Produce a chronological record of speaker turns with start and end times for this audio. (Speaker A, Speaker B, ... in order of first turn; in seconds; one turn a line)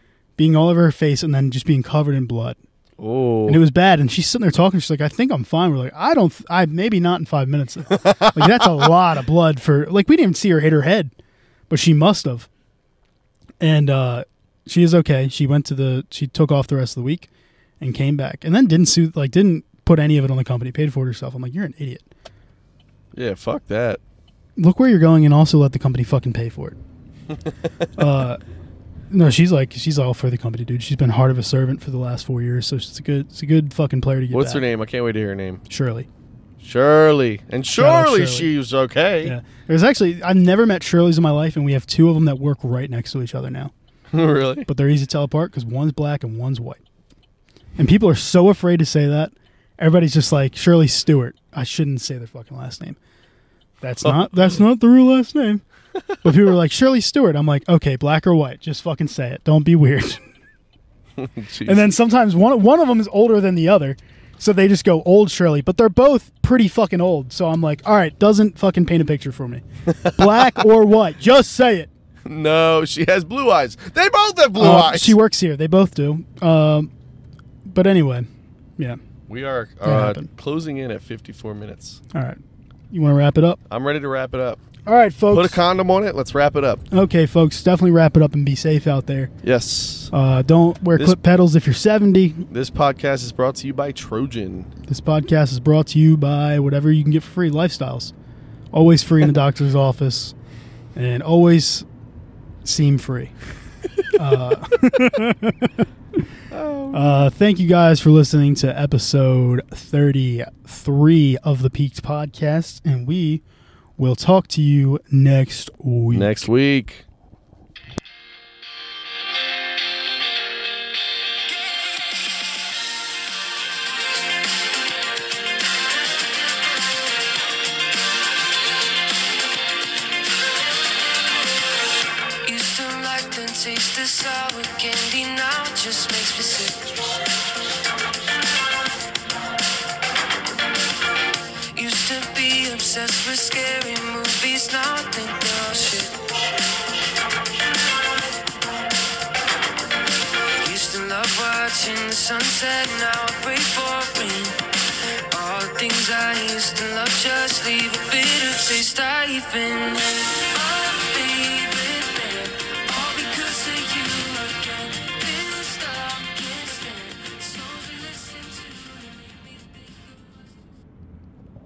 Speaker A: 0.4-2.6
Speaker B: 3.0-3.6
Speaker A: 3.5-11.1
Speaker B: 7.9-8.9
Speaker A: 11.7-12.5
Speaker A: 13.6-22.1
Speaker B: 23.1-24.0
Speaker A: 24.6-26.8
Speaker B: 27.3-27.7
Speaker A: 27.9-28.4
Speaker A: 29.1-34.6
Speaker B: 34.3-35.6
Speaker A: 35.7-36.1
Speaker B: 36.6-39.3
Speaker A: 37.8-38.5
Speaker A: 39.2-43.7
Speaker B: 44.1-44.7
Speaker A: 44.6-46.8
Speaker A: 47.8-53.0
Speaker A: 53.8-55.6
Speaker B: 54.0-54.6
Speaker B: 56.0-56.3
Speaker A: 56.2-60.2
Speaker B: 61.1-61.9
Speaker A: 61.6-71.9
Speaker B: 69.9-70.6
Speaker B: 72.2-75.2
Speaker A: 74.5-76.9
Speaker A: 77.7-79.0
Speaker B: 79.3-82.0
Speaker A: 79.8-80.3
Speaker A: 82.1-82.4
Speaker A: 82.9-83.6
Speaker B: 83.7-84.6
Speaker A: 84.8-85.6
Speaker B: 85.3-86.8
Speaker A: 86.9-89.3
Speaker B: 89.4-90.1
Speaker A: 90.1-92.5
Speaker B: 92.5-94.7
Speaker A: 94.9-98.1
Speaker A: 98.7-100.3
Speaker A: 101.0-101.8
Speaker A: 102.6-103.3
Speaker A: 104.1-105.8
Speaker B: 106.5-107.3
Speaker A: 106.9-113.4
Speaker A: 114.0-116.5
Speaker B: 116.1-117.0
Speaker C: 132.4-137.1
Speaker C: 141.7-146.2
Speaker C: 150.6-154.6
Speaker C: 155.3-170.5